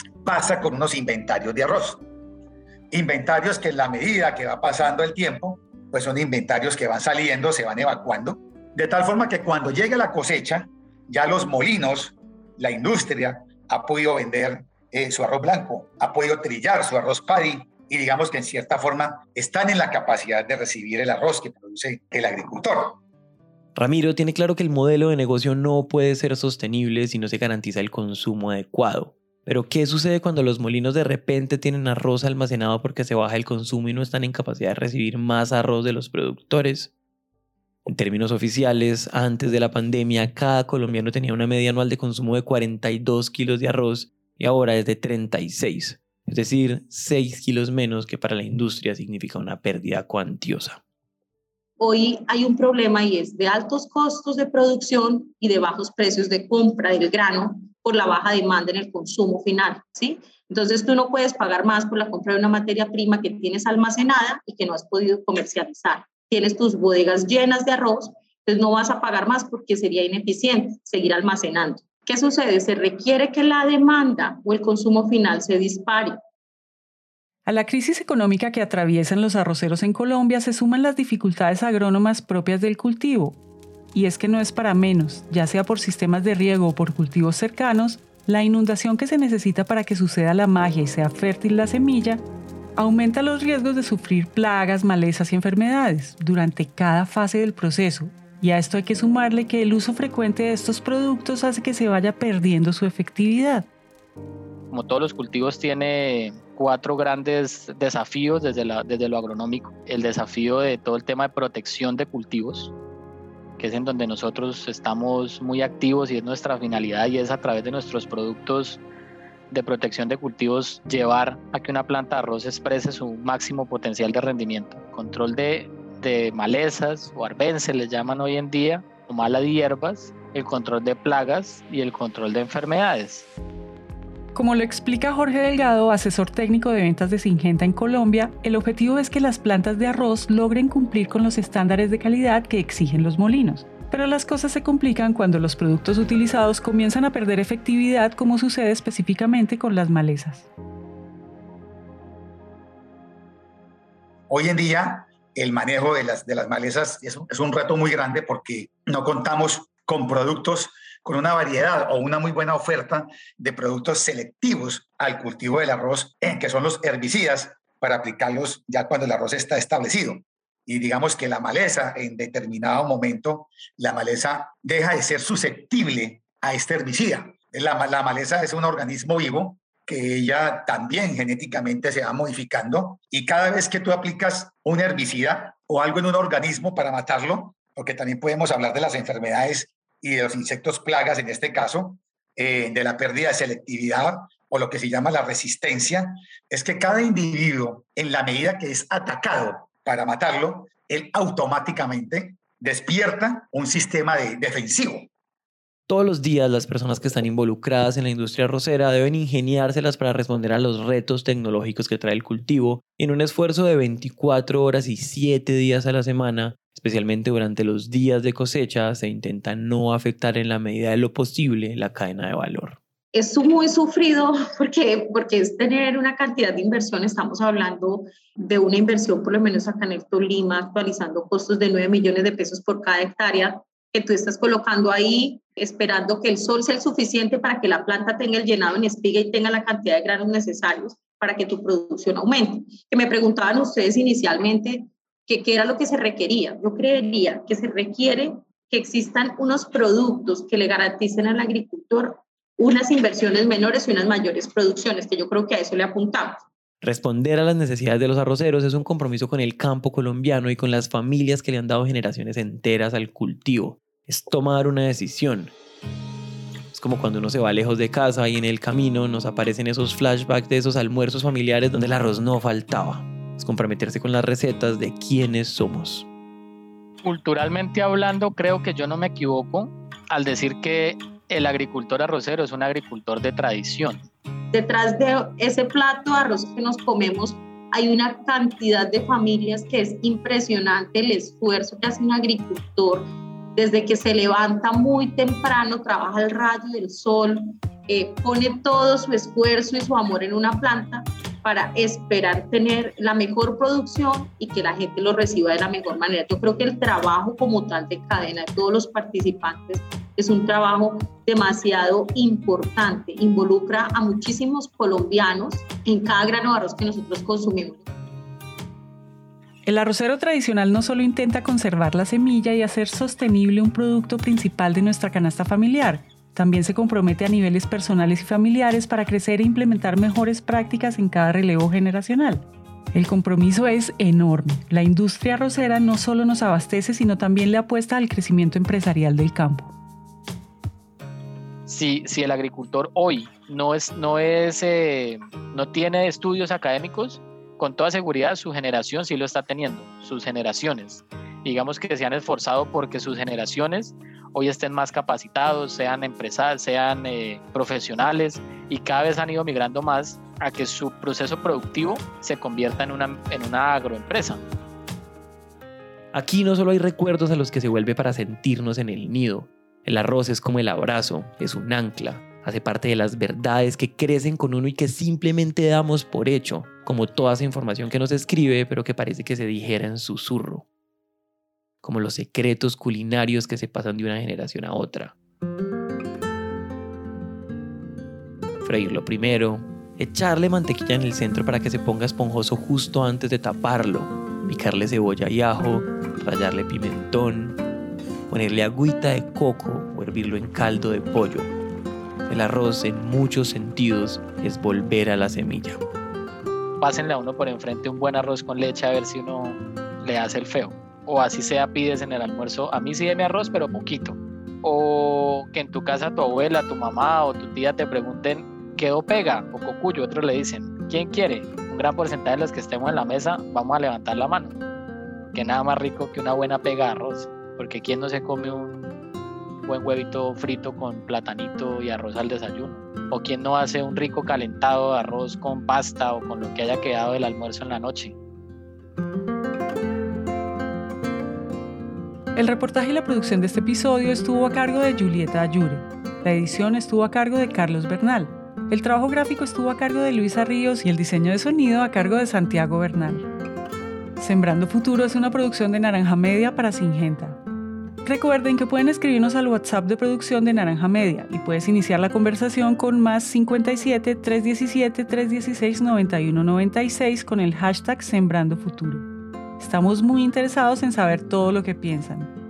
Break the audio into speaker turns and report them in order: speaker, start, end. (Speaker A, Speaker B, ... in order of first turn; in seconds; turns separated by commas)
Speaker A: 0.2-2.0, Speaker A: 2.9-23.0, Speaker B: 23.8-36.9, Speaker B: 37.9-50.8, Speaker C: 51.8-76.2, Speaker D: 77.5-83.4, Speaker D: 83.9-92.2, Speaker D: 92.8-103.7, Speaker E: 104.7-112.7, Speaker E: 113.6-118.8, Speaker E: 119.5-133.3, Speaker D: 134.3-150.5, Speaker A: 154.3-205.1, Speaker B: 205.9-222.8, Speaker C: 223.1-256.4, Speaker B: 256.8-265.5, Speaker B: 266.7-276.1, Speaker E: 277.0-284.1, Speaker C: 284.5-317.8, Speaker D: 319.6-339.7, Speaker E: 341.7-364.4, Speaker B: 366.1-380.7, Speaker B: 381.8-385.1, Speaker B: 388.6-397.6, Speaker B: 398.3-401.5, Speaker B: 402.3-405.8, Speaker E: 406.8-424.6, Speaker E: 425.3-428.8, Speaker E: 429.6-438.2, Speaker D: 442.4-453.3, Speaker D: 454.2-457.4, Speaker D: 458.0-469.1, Speaker D: 469.6-472.3